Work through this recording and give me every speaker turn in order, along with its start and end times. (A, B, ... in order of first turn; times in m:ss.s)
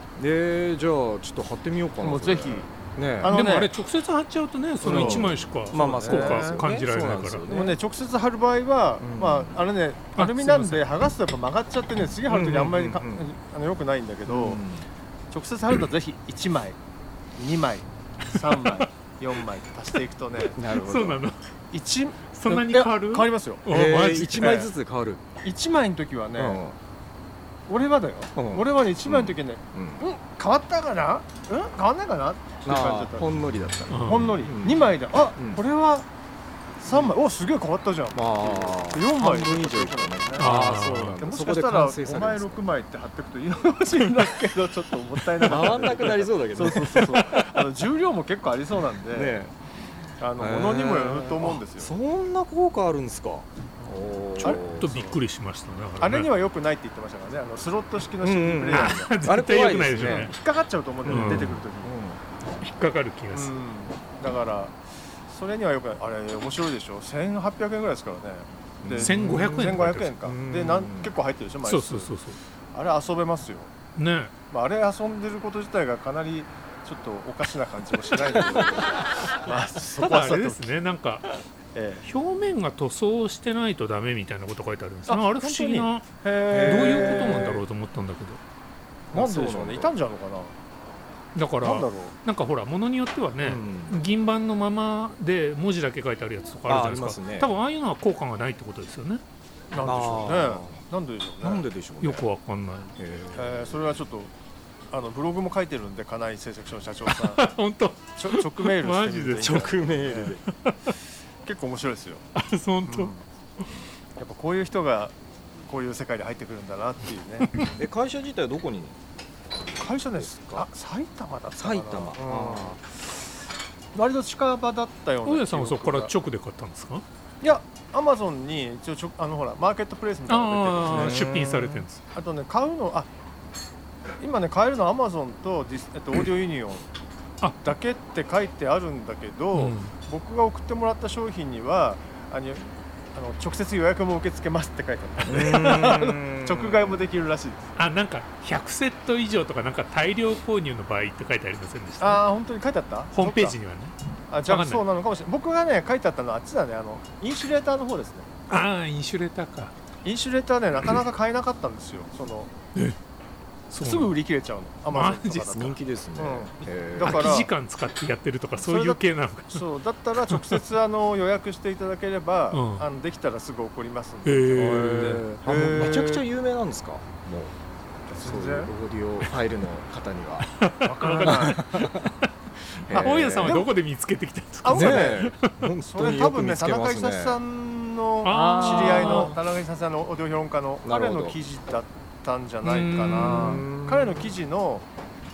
0:00.2-0:03.4 A
0:02.0-0:03.7 B
0:03.3-0:07.5 C
0:04.8-0:06.7 B
0:04.8-0:07.8 A
0:07.5-0:14.6 B
0:09.0-0:09.6 A
0:10.2-0:10.8 C
0:12.3-0:13.3 A
0:14.3-0:14.9 A
0:15.3-0:16.8 B
0:17.4-0:21.0 B
0:18.6-0:18.9 C
0:20.6-0:21.2 A
0:20.7-0:21.4 C
0:21.7-0:23.8 B
0:22.3-0:24.6 C
0:22.5-0:22.8 A
0:23.7-0:25.2 A
0:24.3-0:24.7 B
0:25.4-0:26.6 B
0:26.4-0:26.8 A
0:27.7-0:33.3 B
0:28.4-0:30.1 A
0:32.6-0:35.6 A
0:33.9-0:34.3 C
0:34.0-0:36.1 B
0:36.8-0:49.4 B
0:36.9-0:37.1 A
0:38.1-0:42.6 A
0:40.4-0:41.2 C
0:45.4-0:47.7 A
0:49.1-0:49.6 A
0:50.2-0:52.0 B
0:50.4-0:54.9 A
0:54.4-0:55.2 B
0:54.4-0:56.3 C
0:56.0-1:02.0 B
0:58.2-1:00.4 A
0:58.7-1:00.4 C
1:01.0-1:01.6 C
1:01.0-1:02.2 A
1:02.6-1:03.6 C
1:03.3-1:04.8 B
1:05.3-1:12.1 B
1:08.8-1:11.2 A
1:09.0-1:10.2 C
1:11.6-1:12.4 C
1:12.7-1:13.7 B
1:14.0-1:14.3 C
1:14.5-1:20.7 B
1:18.5-1:18.9 A
1:20.0-1:21.2 C
1:21.8-1:22.0 B
1:22.0-1:26.0 C
1:25.1-1:27.6 B
1:26.5-1:27.6 A
1:26.7-1:28.4 C
1:29.1-1:29.9 A
1:29.1-1:30.6 B
1:31.4-1:39.2 C
1:31.6-1:32.2 B
1:33.4-1:34.0 A
1:36.7-1:37.5 A
1:39.7-1:41.7 B
1:39.8-1:40.8 A
1:41.4-1:42.3 A
1:42.0-1:43.0 C
1:43.0-1:43.7 A
1:43.3-1:44.3 B
1:44.9-1:47.5 B
1:47.1-1:49.6 C
1:48.2-1:50.4 B
1:49.4-1:50.4 A
1:50.6-1:50.9 C
1:51.4-1:52.3 B
1:52.4-1:53.7 C
1:52.8-1:53.2 B
1:54.2-1:57.6 B
1:57.8-1:59.0 A
1:59.8-2:02.8 B
2:00.2-2:00.7 A
2:01.6-2:02.8 A
2:03.9-2:06.1 B
2:05.3-2:07.0 C
2:07.4-2:11.4 B
2:10.3-2:12.0 C
2:10.9-2:11.8 A
2:12.1-2:13.1 B
2:14.2-2:16.9 B
2:17.6-2:27.7 B
2:19.5-2:19.9 C
2:25.2-2:27.0 A
2:27.8-2:32.2 C
2:32.0-2:33.6 B
2:33.1-2:34.0 C
2:34.3-2:38.3 B
2:34.5-2:34.8 C
2:38.5-2:39.7 C
2:40.0-2:42.5 B
2:43.7-2:44.2 C
2:43.8-2:47.5 B
2:44.9-2:45.6 C
2:45.5-2:47.4 A
2:47.0-2:49.6 C
2:48.6-2:56.2 B
2:50.3-2:50.6 C
2:52.5-2:52.9 C
2:54.2-2:55.2 C
2:54.5-2:57.6 A
2:58.1-2:58.7 B
2:58.1-3:00.5 A
3:00.5-3:02.1 C
3:00.8-3:01.8 B
3:01.0-3:02.1 A
3:02.9-3:03.7 A
3:02.9-3:05.7 C
3:02.9-3:03.7 B
3:04.6-3:14.9 B
3:04.7-3:07.4 A
3:08.2-3:09.4 C
3:08.3-3:09.4 A
3:10.8-3:11.4 A
3:12.6-3:13.6 C
3:13.0-3:14.4 A